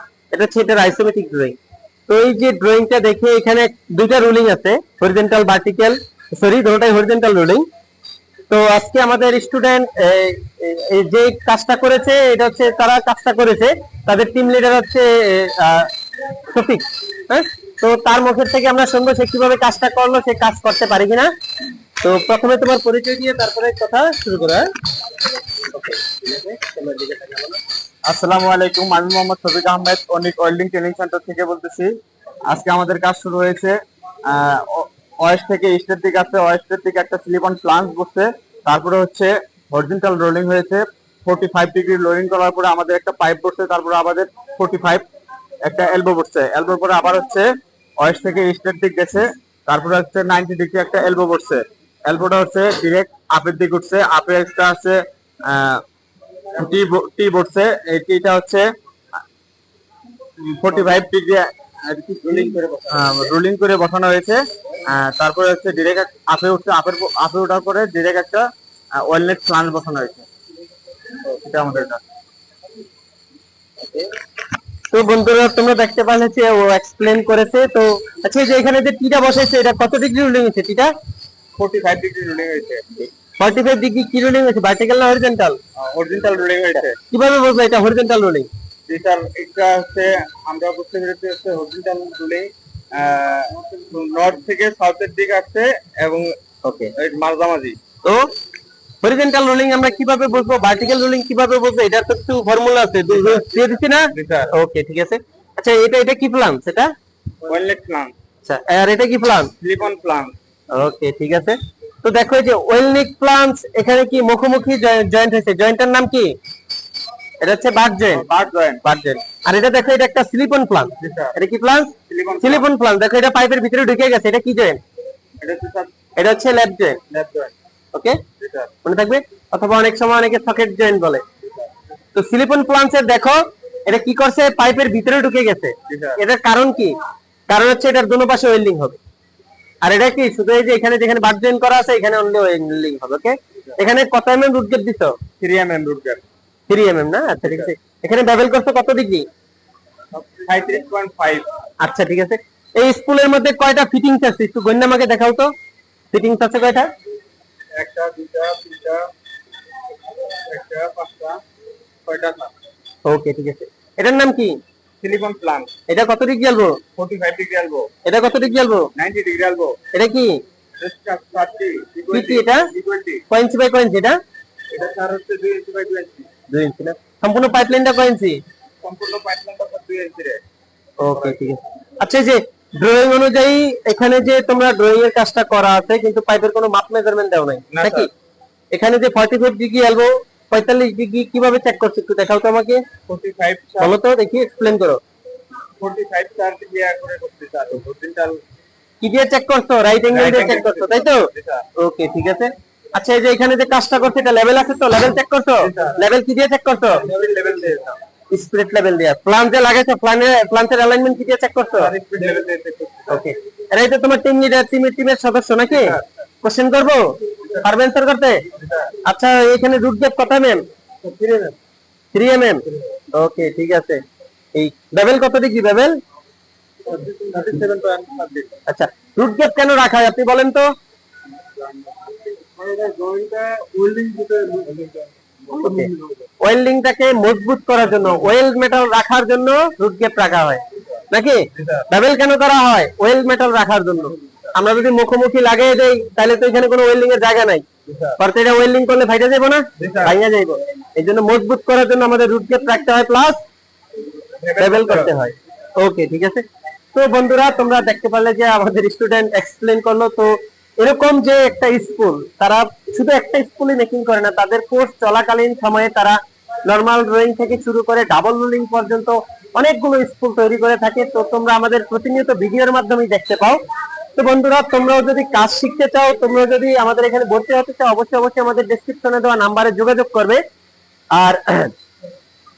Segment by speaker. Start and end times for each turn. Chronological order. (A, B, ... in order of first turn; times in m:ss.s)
0:00.3-0:01.6 A
0:02.1-0:07.7 A
0:08.5-0:15.9 A
0:16.5-0:21.3 A
0:22.0-0:24.7 A
0:25.6-0:27.6 A
0:28.1-0:32.0 B
0:32.5-0:45.0 B
0:45.6-0:47.5 B
0:48.0-0:55.8 B
0:56.5-0:58.7 B
1:00.4-1:10.3 B
1:11.2-1:12.0 B
1:14.9-1:20.9 A
1:21.6-1:22.8 B
1:23.4-1:25.6 A
1:25.8-1:27.0 B
1:26.8-1:28.5 A
1:28.9-1:36.3 B
1:36.6-1:36.9 A
1:37.0-1:37.8 B
1:38.0-1:38.3 A
1:39.0-1:46.9 A
1:43.1-1:44.5 B
1:47.4-1:48.1 B
1:48.4-1:49.5 A
1:49.6-1:50.4 B
1:50.7-1:56.4 A
1:57.4-1:58.3 A
1:58.1-1:58.9 B
1:58.8-2:04.8 A
2:01.0-2:01.4 B
2:02.1-2:02.7 B
2:05.4-2:05.9 B
2:06.2-2:07.0 A
2:07.1-2:07.5 B
2:07.9-2:08.2 A
2:08.4-2:08.7 B
2:08.8-2:11.2 A
2:12.2-2:17.0 A
2:15.9-2:16.2 B
2:17.5-2:19.0 A
2:19.8-2:25.2 A
2:25.4-2:26.2 B
2:26.7-2:29.3 A
2:27.4-2:27.7 B
2:30.1-2:31.5 B
2:31.8-2:35.5 A
2:36.1-2:36.9 A
2:37.8-2:39.1 B
2:40.3-2:41.4 B
2:42.1-2:42.5 B
2:43.0-2:44.6 A
2:45.0-2:45.7 B
2:45.9-2:46.8 A
2:47.0-2:47.9 B
2:48.0-2:48.9 A
2:49.0-2:49.8 B
2:49.9-2:50.4 A
2:50.8-2:53.2 B
2:52.1-2:52.7 A
2:53.3-2:54.2 A
2:54.7-2:56.3 B
2:56.5-2:58.4 A
2:58.8-3:00.4 B
3:01.0-3:08.1 A
3:01.1-3:01.4 B
3:07.7-3:08.1 B
3:08.7-3:12.8 A
3:13.1-3:14.0 B
3:13.8-3:15.0 A
3:15.8-3:18.4 B
3:19.0-3:27.0 A
3:20.1-3:21.6 B
3:25.6-3:26.0 B
3:27.0-3:28.0 B
3:28.3-3:31.9 A
3:31.8-3:33.3 B
3:33.1-3:38.5 A
3:35.8-3:36.0 B
3:38.5-3:38.9 B
3:39.0-3:40.6 A
3:41.0-3:41.5 B
3:42.1-3:44.0 A
3:44.6-3:46.0 A
3:46.9-3:48.5 B
3:48.7-3:50.7 A
3:51.6-3:56.2 B
3:55.6-4:07.6 A
4:01.6-4:01.8 B
4:07.9-4:08.2 B
4:08.2-4:13.4 A
4:09.8-4:10.2 B
4:14.4-4:15.2 B
4:14.6-4:16.4 A
4:17.0-4:33.6 A
4:34.2-4:40.4 A
4:41.1-4:41.7 A